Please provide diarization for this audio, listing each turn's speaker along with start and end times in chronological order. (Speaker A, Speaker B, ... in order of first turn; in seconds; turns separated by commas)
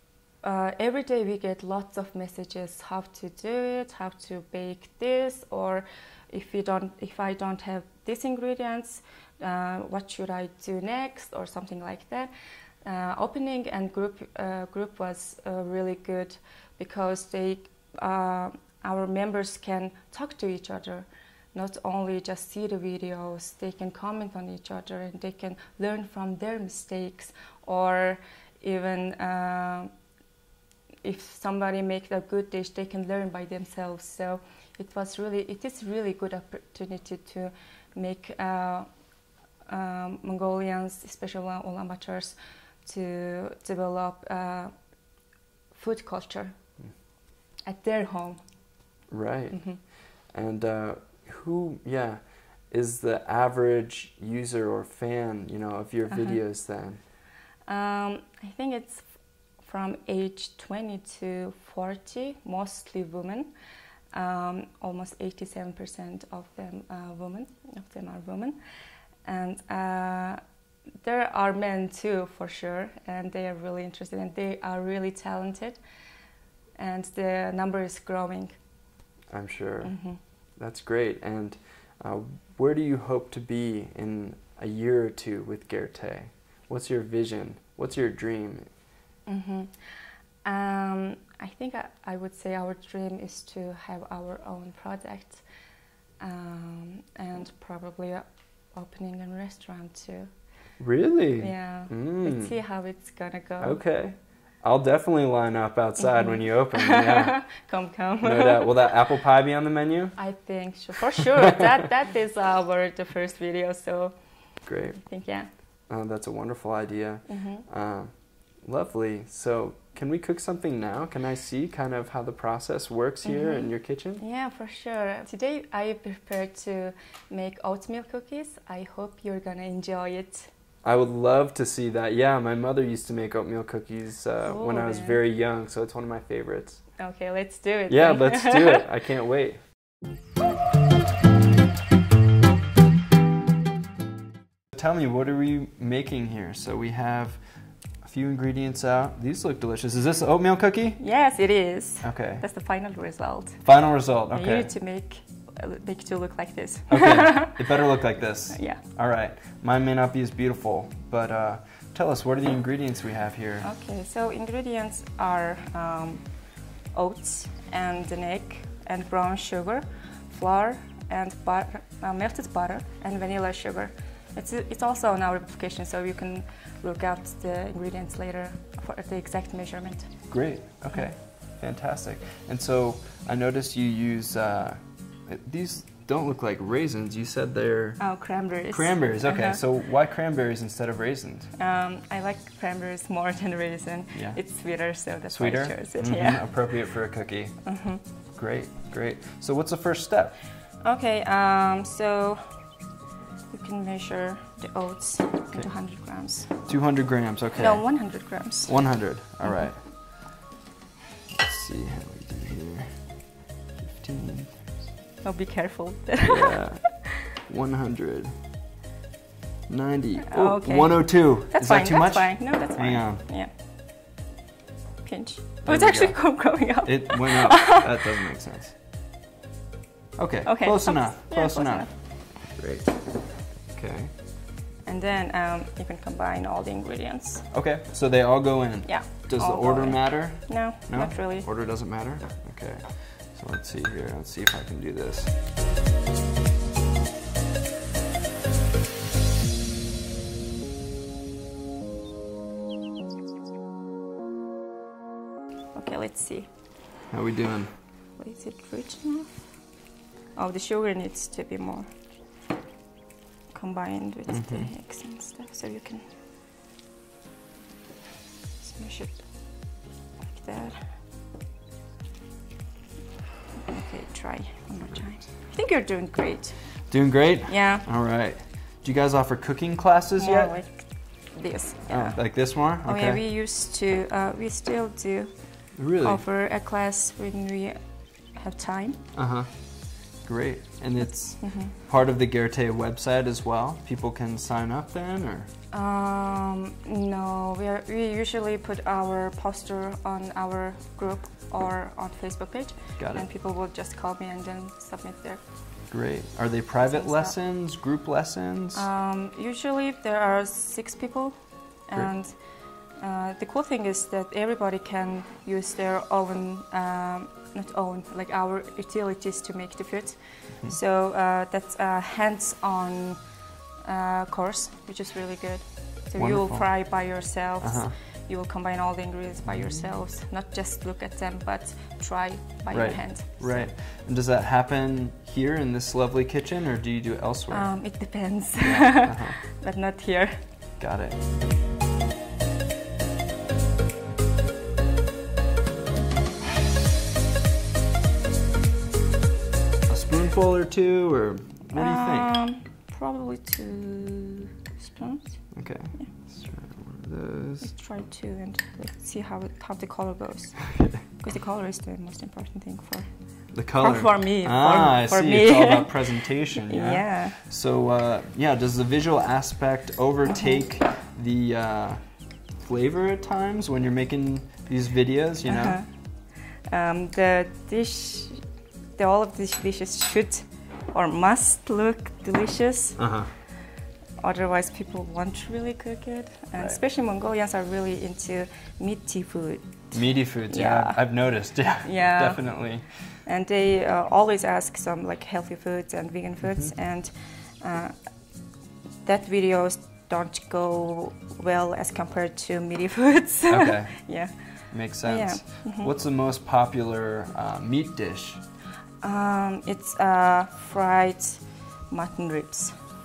Speaker A: 0.4-12.3, Speaker A: 12.8-29.9, Speaker A: 31.0-38.9, Speaker A: 39.7-44.7, Speaker A: 45.7-46.6, Speaker A: 47.6-48.4, Speaker B: 49.1-57.0, Speaker A: 49.5-49.8, Speaker A: 56.1-56.4, Speaker A: 57.7-63.5, Speaker A: 64.1-68.6, Speaker A: 69.2-70.4, Speaker A: 71.0-75.8, Speaker A: 76.8-78.5, Speaker B: 79.3-80.0, Speaker A: 79.8-80.2, Speaker B: 80.6-88.7, Speaker A: 89.2-89.9, Speaker A: 90.4-95.4, Speaker A: 96.2-100.3, Speaker B: 100.8-102.5, Speaker A: 101.4-103.8, Speaker B: 103.6-107.4, Speaker A: 106.0-108.8, Speaker B: 108.2-110.2, Speaker A: 110.2-114.2, Speaker B: 114.7-115.0, Speaker A: 114.9-115.5, Speaker B: 115.9-124.2, Speaker A: 117.3-117.6, Speaker A: 123.2-130.5, Speaker B: 130.8-136.9, Speaker A: 134.4-135.2, Speaker A: 137.0-138.8, Speaker B: 137.9-139.6, Speaker B: 144.7-147.4, Speaker B: 148.0-151.0, Speaker A: 151.0-153.7, Speaker B: 152.0-152.4, Speaker B: 153.6-154.7, Speaker A: 154.3-157.6, Speaker B: 156.9-163.7, Speaker A: 158.5-158.8, Speaker A: 163.6-166.3, Speaker A: 166.9-180.3, Speaker B: 180.3-188.1, Speaker A: 188.0-189.6, Speaker B: 188.7-191.5, Speaker A: 191.6-196.5, Speaker B: 194.1-194.4, Speaker B: 195.3-197.7, Speaker A: 197.6-198.0, Speaker B: 198.3-200.3, Speaker A: 200.8-202.6, Speaker A: 203.5-206.6, Speaker B: 205.5-205.8, Speaker B: 206.5-208.0, Speaker A: 207.6-209.7, Speaker B: 208.7-210.1, Speaker B: 211.3-213.1, Speaker B: 213.8-214.8, Speaker A: 215.2-217.1, Speaker B: 216.2-218.3, Speaker B: 219.7-223.2, Speaker A: 220.3-223.5, Speaker A: 225.0-228.0, Speaker B: 225.7-228.8, Speaker B: 230.2-234.1, Speaker A: 230.4-232.3, Speaker A: 234.8-237.5, Speaker B: 237.5-245.3, Speaker A: 238.8-241.5, Speaker A: 255.7-256.5, Speaker B: 257.1-257.7, Speaker A: 258.2-259.5, Speaker A: 260.3-261.9, Speaker A: 263.5-266.0, Speaker B: 264.3-264.7, Speaker A: 268.6-269.3, Speaker A: 270.3-271.0, Speaker A: 273.6-276.7, Speaker B: 274.8-275.1, Speaker B: 276.9-280.6, Speaker A: 277.5-277.9, Speaker A: 280.2-285.3, Speaker B: 281.9-283.2, Speaker B: 285.7-286.2, Speaker A: 286.0-287.8, Speaker A: 288.3-289.0, Speaker B: 289.1-289.5, Speaker B: 290.2-295.5, Speaker A: 291.4-291.8, Speaker A: 295.7-305.4, Speaker B: 303.0-303.2, Speaker B: 305.9-308.9, Speaker A: 306.9-307.4, Speaker A: 308.7-312.4, Speaker A: 313.0-323.3, Speaker A: 323.8-333.7, Speaker B: 326.2-327.9, Speaker B: 329.4-329.9, Speaker B: 332.7-337.7, Speaker A: 337.5-340.4, Speaker B: 338.6-339.4, Speaker B: 340.8-341.2, Speaker B: 349.9-352.3, Speaker A: 351.7-356.1, Speaker B: 355.5-357.7, Speaker A: 357.6-363.1, Speaker B: 360.7-361.0, Speaker B: 363.5-375.8, Speaker A: 363.7-367.4, Speaker A: 370.3-370.6, Speaker A: 375.5-378.4, Speaker A: 378.9-383.0, Speaker B: 383.0-383.3, Speaker A: 384.2-391.0, Speaker B: 386.6-386.8, Speaker B: 389.9-392.9, Speaker A: 391.8-392.6, Speaker A: 393.2-397.9, Speaker B: 396.4-396.7, Speaker A: 399.0-405.9, Speaker B: 403.5-404.1, Speaker B: 404.7-408.4, Speaker A: 409.0-412.8